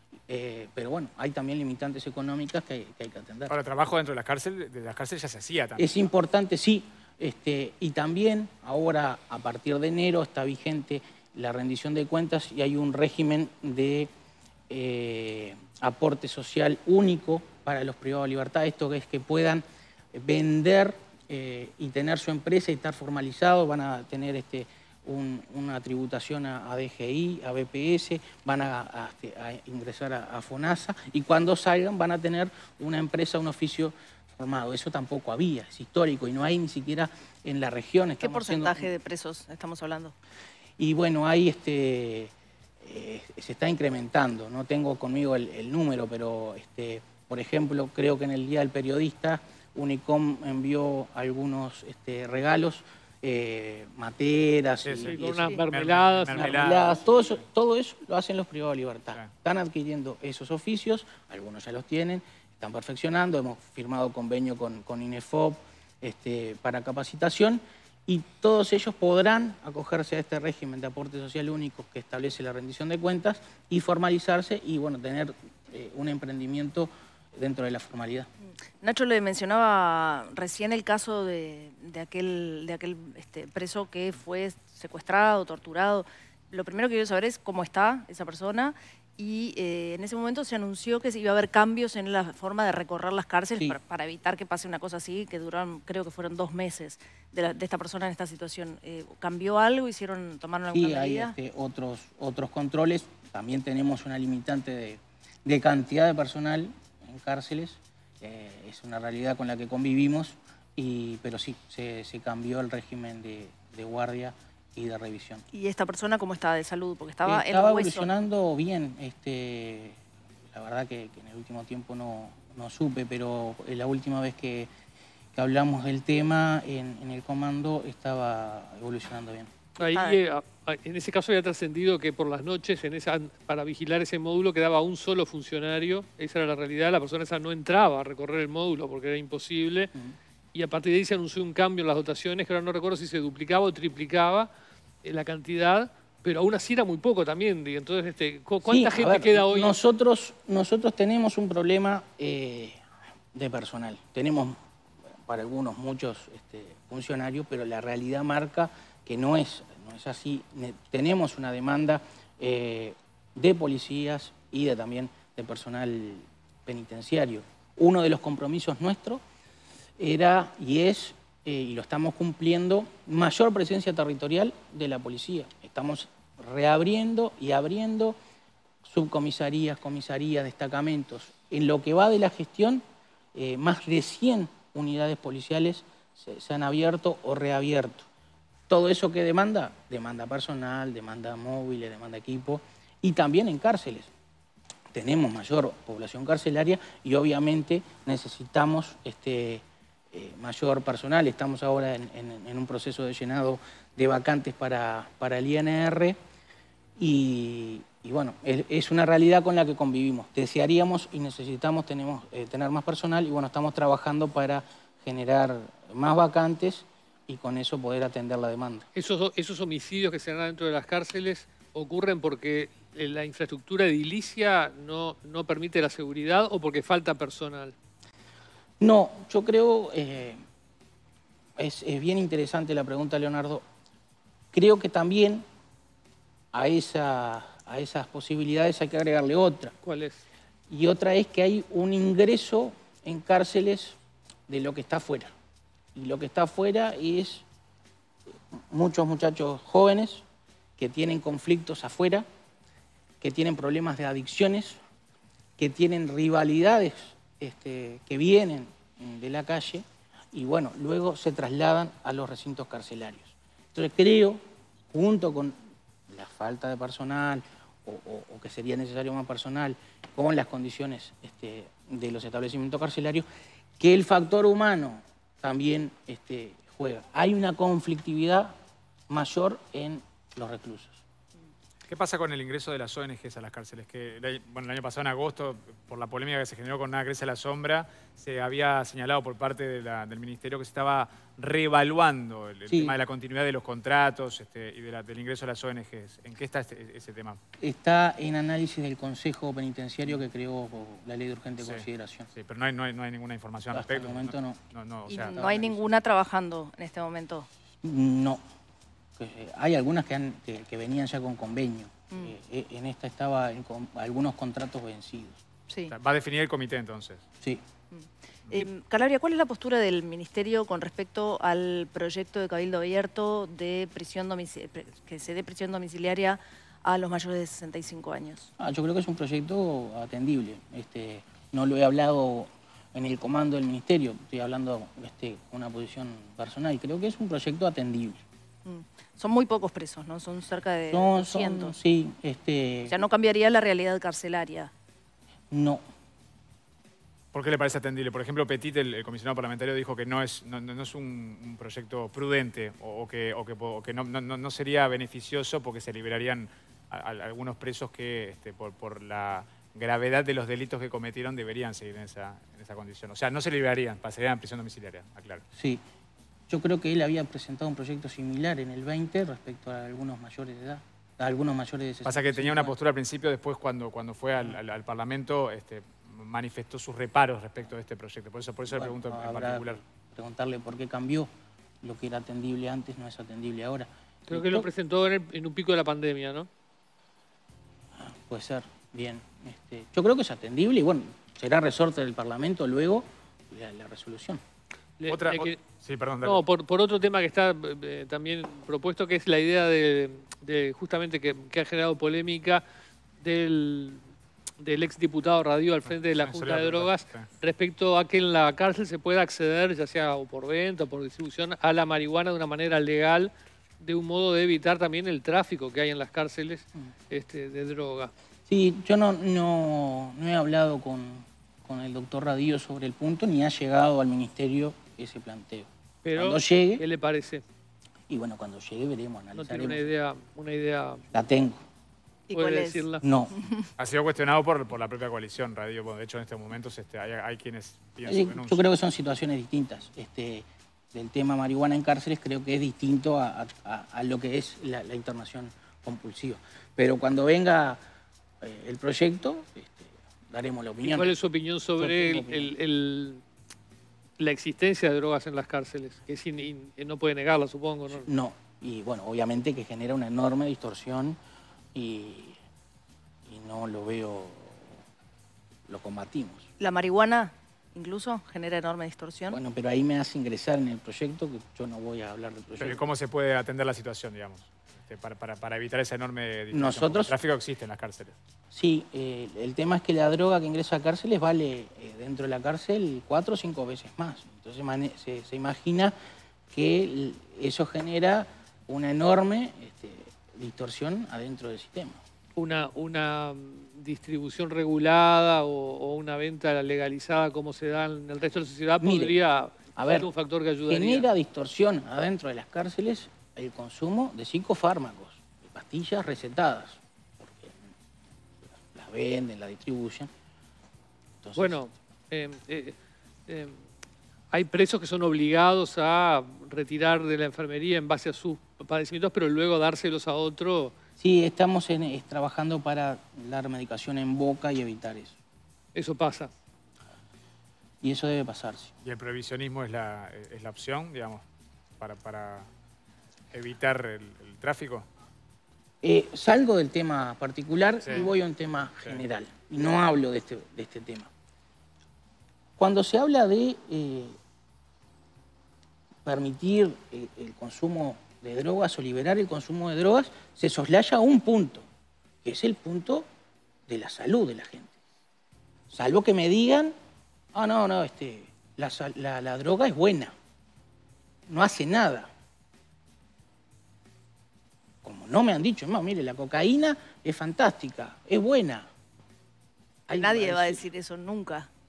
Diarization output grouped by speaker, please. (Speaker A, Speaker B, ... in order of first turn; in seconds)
Speaker A: 0.3-3.5, 5.8-14.1, 14.7-38.9, 40.8-42.3, 42.8-55.6, 56.3-78.3, 100.7-115.4, 117.2-120.0, 120.5-124.7, 125.3-129.5, 148.6-152.8, 153.3-154.6, 155.2-169.2, 170.0-178.2, 178.8-182.8, 183.3-188.1, 188.7-194.1, 194.9-206.2, 207.0-218.8, 228.8-230.4, 231.6-233.6, 234.5-235.4, 236.5-239.7, 240.7-244.0, 244.5-245.3, 245.9-247.4, 248.5-250.2, 250.8-252.2, 253.2-254.8, 255.6-264.4, 264.9-265.5, 266.1-273.2, 273.8-278.5, 279.1-281.0, 292.7-292.9, 297.6-302.3, 303.7-304.6, 305.3-305.9, 307.8-308.4, 309.2-315.4, 328.6-338.2, 340.9-343.0, 345.5-345.8, 365.5-365.8, 366.5-372.7, 378.7-381.3, 381.8-384.7, 387.9-394.4, 418.5-426.8, 428.1-429.9, 431.1-431.6, 433.0-433.3, 438.0-447.8, 448.4-451.1, 451.8-452.5, 457.9-461.2, 461.7-462.4, 463.3-464.8, 465.7-466.5, 469.3-472.8, 476.5-477.1, 478.5-485.9, 486.5-492.0, 498.8-499.1, 499.8-500.1, 500.7-507.6, 508.5-510.1, 511.2-511.6, 521.0-525.2, 527.8-528.7, 535.8-541.1, 542.6-544.2, 546.0-551.6, 552.2-553.0, 553.7-554.7, 555.7-556.7, 557.3-560.1, 561.3-562.1, 564.8-568.7, 569.9-570.6
Speaker B: 3.5-6.0, 54.8-57.0, 281.9-297.4, 301.6-305.4, 315.9-317.2, 347.3-365.4, 372.0-379.8, 395.1-396.4, 406.2-407.3, 433.8-438.6, 472.6-478.1, 528.8-531.2, 531.8-532.5, 533.3-534.9, 537.8-538.1
Speaker C: 38.2-40.1, 78.8-101.3, 115.5-118.2, 129.8-130.2, 305.1-307.5, 315.7-315.9, 317.9-328.5, 338.6-341.8, 342.9-344.7, 432.3-432.8, 433.4-433.7, 466.6-469.4, 569.9-571.5
Speaker D: 55.0-56.9, 129.8-139.9, 140.5-144.5, 145.0-149.8, 218.9-227.7, 239.8-240.2, 384.3-386.5, 395.0-395.6, 396.2-402.6, 403.2-404.0, 404.6-418.1, 426.0-427.4, 429.3-431.1, 432.3-433.0, 450.8-453.2, 454.2-458.1, 492.4-501.1, 511.4-512.8, 513.3-513.6, 514.3-520.7, 525.7-526.3